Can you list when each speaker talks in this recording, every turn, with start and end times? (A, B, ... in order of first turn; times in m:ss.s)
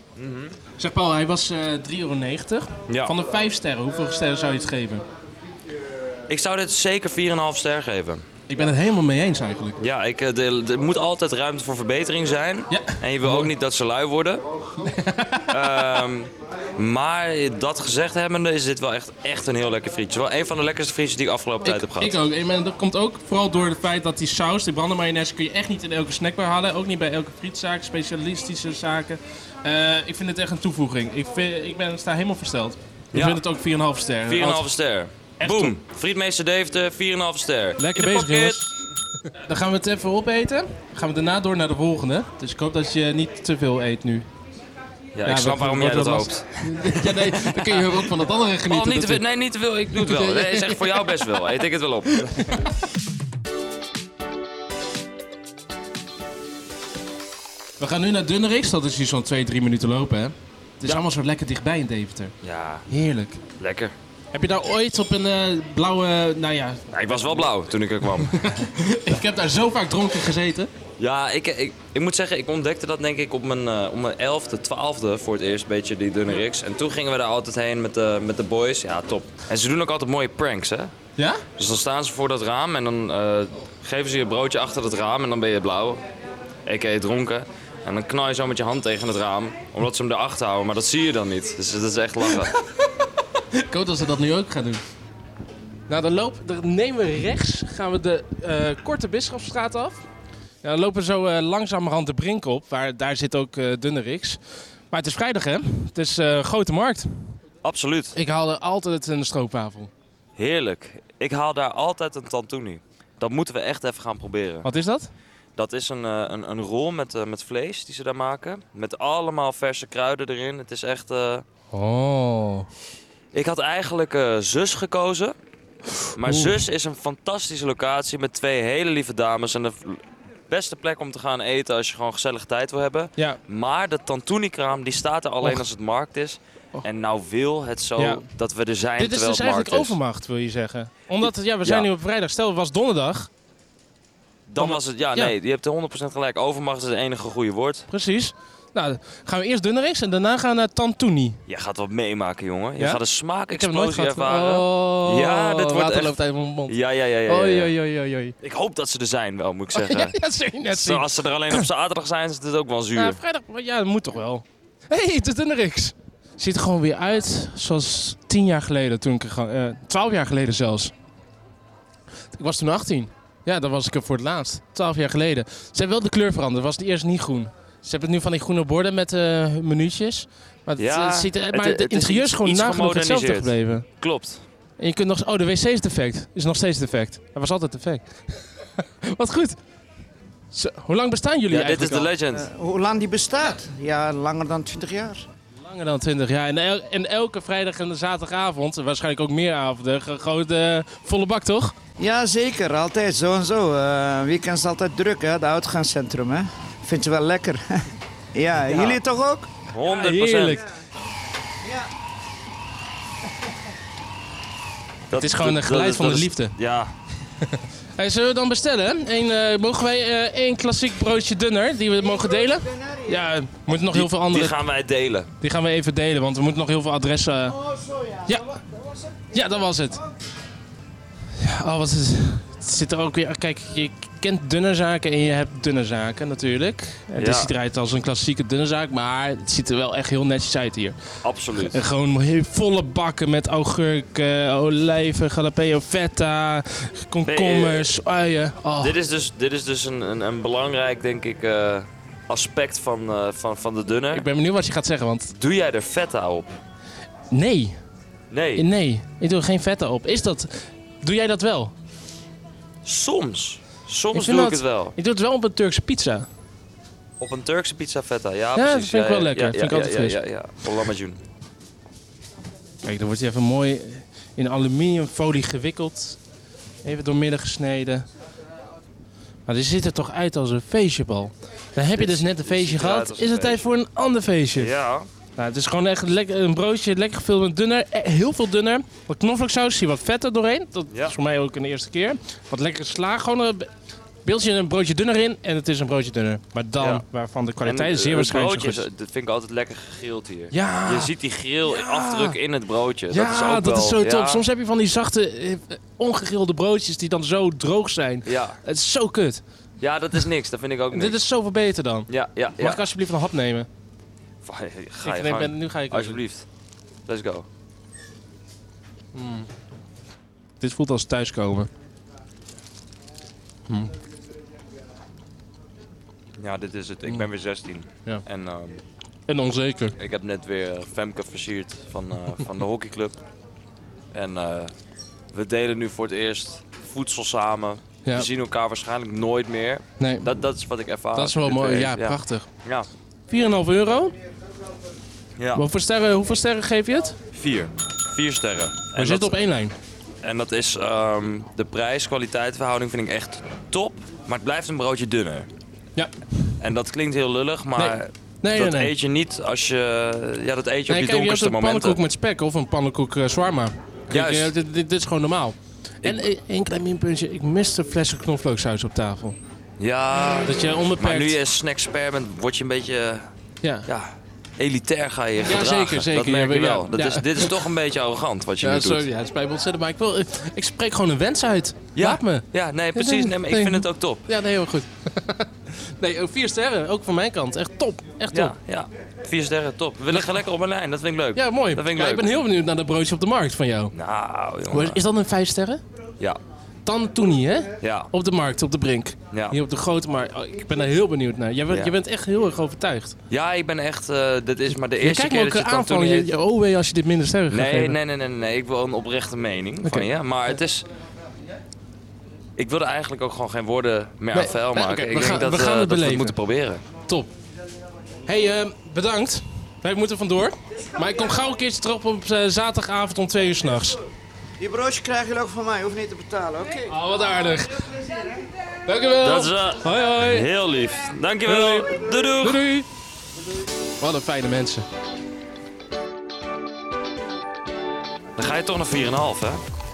0:00.2-0:00.6 A
0:00.8-0:05.0 B
0:02.9-0:03.1 A
0:06.3-0:08.2 A
0:08.5-0:09.8 B
0:09.8-0:14.4 A
0:12.7-0:13.5 B
0:14.8-0:15.5 B
0:15.5-0:22.2 A
0:21.6-0:34.6 B
0:33.1-0:33.4 A
0:34.3-0:38.7 A
0:35.4-0:35.7 B
0:37.8-0:38.7 B
0:39.3-0:44.3 B
0:45.2-0:48.0 A
0:45.2-0:49.2 B
0:48.7-0:52.6 A
0:49.9-0:51.1 B
0:52.2-0:52.7 B
0:57.8-1:02.3 B
1:02.4-1:02.8 A
1:02.9-1:03.4 B
1:03.6-1:03.9 A
1:04.3-1:07.4 B
1:06.9-1:08.5 A
1:08.2-1:10.7 B
1:11.0-1:20.9 A
1:21.2-1:21.4 B
1:21.6-1:26.0 A
1:26.6-1:32.6 A
1:33.5-1:34.8 B
1:35.9-1:40.0 B
1:40.6-1:44.4 B
1:44.9-1:47.3 B
1:47.6-1:48.2 A
1:48.1-1:49.9 B
1:50.4-1:54.7 A
1:54.6-1:55.1 B
1:55.6-2:01.4 A
2:01.7-2:02.7 B
2:03.3-2:05.3 A
2:06.1-2:20.0 A
2:06.2-2:06.6 B
2:18.0-2:18.2 B
2:19.0-2:23.3 B
2:21.2-2:21.9 A
2:24.5-2:27.9 A
2:24.6-2:25.3 B
2:27.9-2:31.4 B
2:31.5-2:36.2 A
2:33.6-2:36.7 B
2:36.7-2:37.7 A
2:37.3-2:38.3 B
2:38.4-2:40.2 A
2:39.8-2:41.6 B
2:40.7-2:43.2 A
2:43.0-2:50.9 B
2:52.4-3:03.8 B
3:00.8-3:04.4 A
3:04.8-3:09.6 B
3:10.5-3:12.1 B
3:11.5-3:12.5 A
3:12.3-3:15.2 C
3:15.6-3:21.7 B
3:22.0-3:29.5 C
3:28.7-3:29.0 A
3:29.7-3:30.6 A
3:29.8-3:30.6 B
3:35.1-3:36.9 A
3:35.1-3:36.5 B
3:37.4-3:44.6 B
3:42.2-3:43.1 C
3:43.7-3:45.3 A
3:45.4-3:47.6 B
3:47.6-3:48.2 C
3:48.2-3:48.6 B
3:49.3-3:50.0 B
3:51.4-4:01.0 B
3:57.2-3:57.5 A
4:01.2-4:01.8 A
4:01.6-4:09.0 B
4:07.2-4:08.0 A
4:08.8-4:14.2 A
4:14.1-4:15.3 B
4:15.3-4:16.6 A
4:17.3-4:17.8 B
4:18.3-4:18.6 A
4:18.6-4:21.7 B
4:22.8-4:24.9 A
4:24.1-4:26.3 B
4:27.2-4:31.2 A
4:28.6-4:30.2 B
4:32.8-4:36.2 B
4:36.8-4:38.0 B
4:39.5-4:44.7 B
4:41.9-4:43.7 A
4:44.6-4:45.1 A
4:45.4-4:53.7 B
4:50.9-4:51.2 A
4:54.2-4:58.8 B
4:57.6-5:04.4 A
5:00.5-5:01.1 B
5:01.6-5:02.4 B
5:03.1-5:09.4 B
5:08.2-5:08.6 A
5:09.8-5:11.2 A
5:10.9-5:12.1 B
5:12.1-5:12.8 A
5:12.6-5:13.7 B
5:14.4-5:16.4 A
5:15.0-5:16.2 B
5:17.1-5:17.4 A
5:19.1-5:19.5 B
5:20.6-5:21.7 B
5:26.4-5:28.8 A
5:29.3-5:29.9 B
5:30.0-5:33.2 A
5:34.1-5:34.7 A
5:35.3-5:42.9 A
5:40.0-5:40.3 B
5:41.1-5:42.5 B
5:43.3-5:44.2 B
5:45.4-5:45.6 A
5:45.5-5:47.2 B
5:47.3-5:49.3 A
5:49.0-5:49.7 B
5:50.2-5:55.5 A
5:56.6-6:02.0 A
5:57.8-5:58.9 B
6:00.9-6:09.4 B
6:04.1-6:04.5 A
6:09.8-6:13.3 A
6:10.4-6:11.4 B
6:13.8-6:19.0 A
6:15.4-6:17.6 B
6:18.6-6:28.5 B
6:22.0-6:24.2 A
6:28.3-6:32.4 A
6:31.3-6:33.9 B
6:33.9-6:35.0 A
6:34.7-6:35.8 B
6:36.8-6:43.2 B
6:37.8-6:38.1 A
6:39.3-6:39.6 A
6:43.3-6:46.3 A
6:45.0-6:48.0 B
6:47.5-6:50.8 A
6:49.8-6:50.1 B
6:52.6-6:56.8 A
6:54.3-6:56.4 B
6:58.3-7:04.0 B
7:04.6-7:06.9 C
7:06.9-7:07.9 B
7:08.8-7:10.5 B
7:09.2-7:12.6 A
7:11.4-7:12.9 B
7:14.0-7:14.8 B
7:18.4-7:19.6 A